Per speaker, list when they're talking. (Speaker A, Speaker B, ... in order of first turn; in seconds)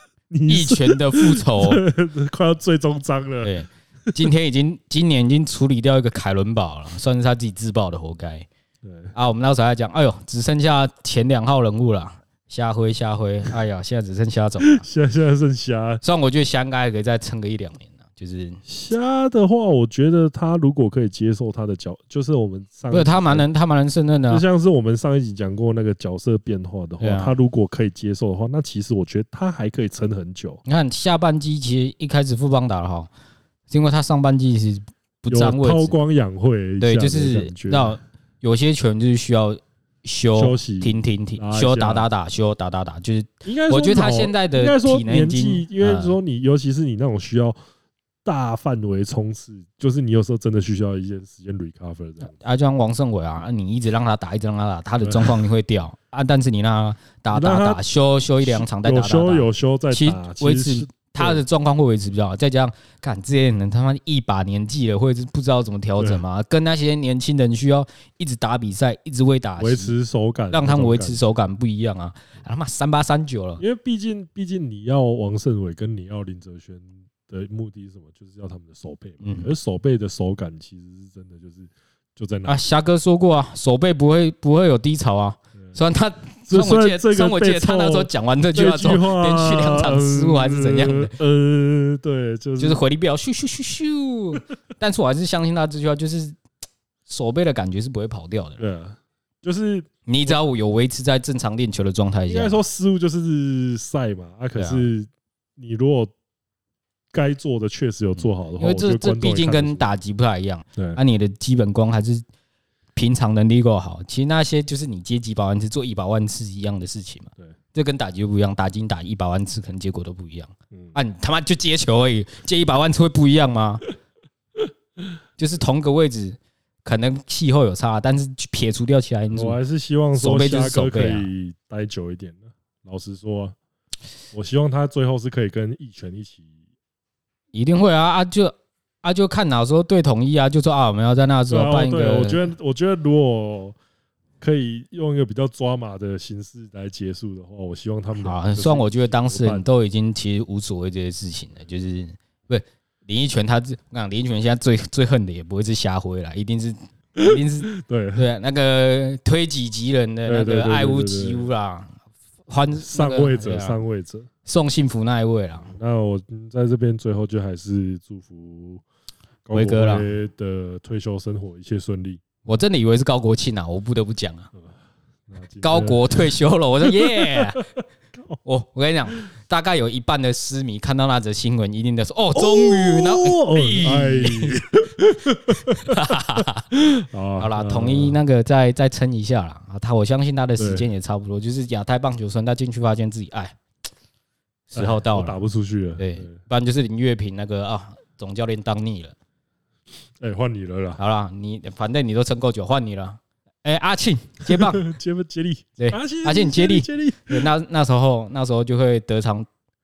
Speaker A: 0.3-3.5, 8.8-9.1, 14.6-16.0, 18.6-23.4, 24.3-30.6, 35.3-38.0, 40.4-42.1, 43.4-47.6, 48.2-52.4, 55.0-55.4, 57.3-57.8, 58.4-61.4, 66.0-66.2, 69.6-71.2, 73.6-82.6, 86.5-92.8, 98.6-100.4, 102.3-106.1, 107.1-109.9, 120.7-121.0, 129.3-133.6, 134.3-136.4, 141.5-143.8, 144.4-149.7, 157.2-158.2, 160.3-161.5, 162.8-164.3, 165.6-168.8, 169.4-172.2, 175.3-177.6, 182.3-186.1, 186.7-188.2, 190.6-190.9, 194.7-196.4, 200.2-201.0, 204.4-207.5
Speaker B: 0.5-1.8, 3.4-8.5, 9.1-14.8, 16.0-18.6, 22.9-24.4, 27.0-27.3, 30.6-33.1, 33.7-35.9, 36.8-46.1, 52.2-69.9, 70.5-73.6, 79.2-79.5, 82.5-91.1, 92.6-96.4, 97.1-98.6, 100.1-102.6, 104.5-104.9, 108.6-112.2, 112.9-123.8, 125.4-129.6, 130.1-131.3, 137.5-142.4, 148.2-161.9, 162.5-163.8, 164.4-165.7, 169.5-170.1, 172.4-174.5, 175.6-177.6, 178.4-184.6, 185.7-186.7, 187.4-193.6, 194.7-195.4, 196.0-199.1, 201.0-204.9, 205.8-209.5